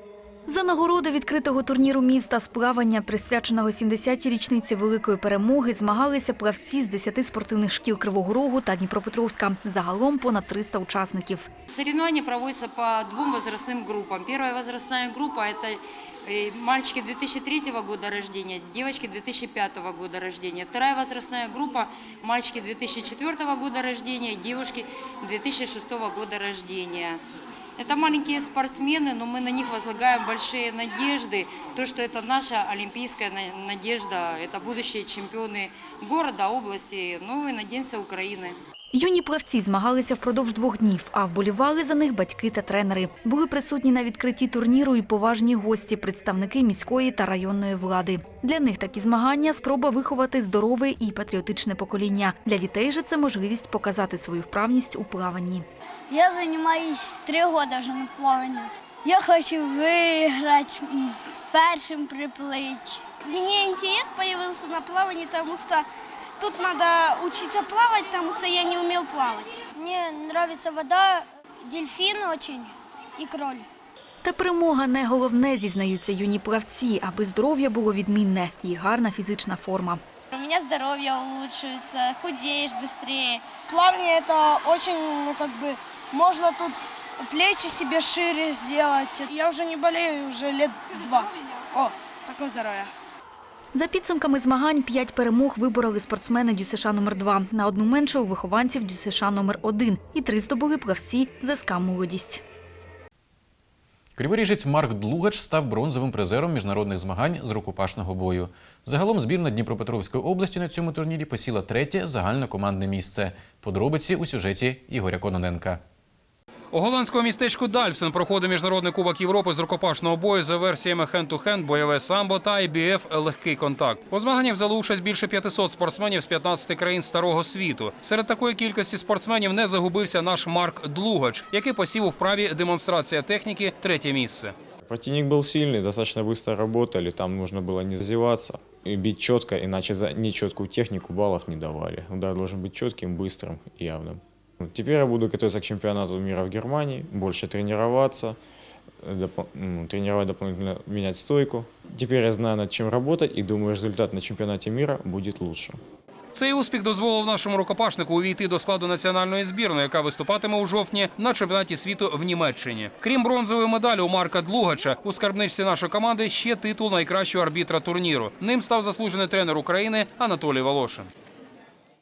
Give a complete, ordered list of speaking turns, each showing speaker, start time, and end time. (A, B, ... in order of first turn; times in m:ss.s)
0:00.5-0:11.5 A
0:11.7-0:27.2 B
0:27.8-0:38.6 B
0:38.9-0:55.6 A
0:56.1-1:05.9 C
1:06.4-1:13.7 C
1:14.2-1:20.0 A
1:20.3-1:23.6 C
1:23.7-1:32.9 D
1:33.8-1:42.4 A
1:44.2-1:55.8 E
1:56.7-2:14.5 F
2:14.8-2:28.4 G
2:29.0-2:35.8 G
2:36.3-2:51.1 F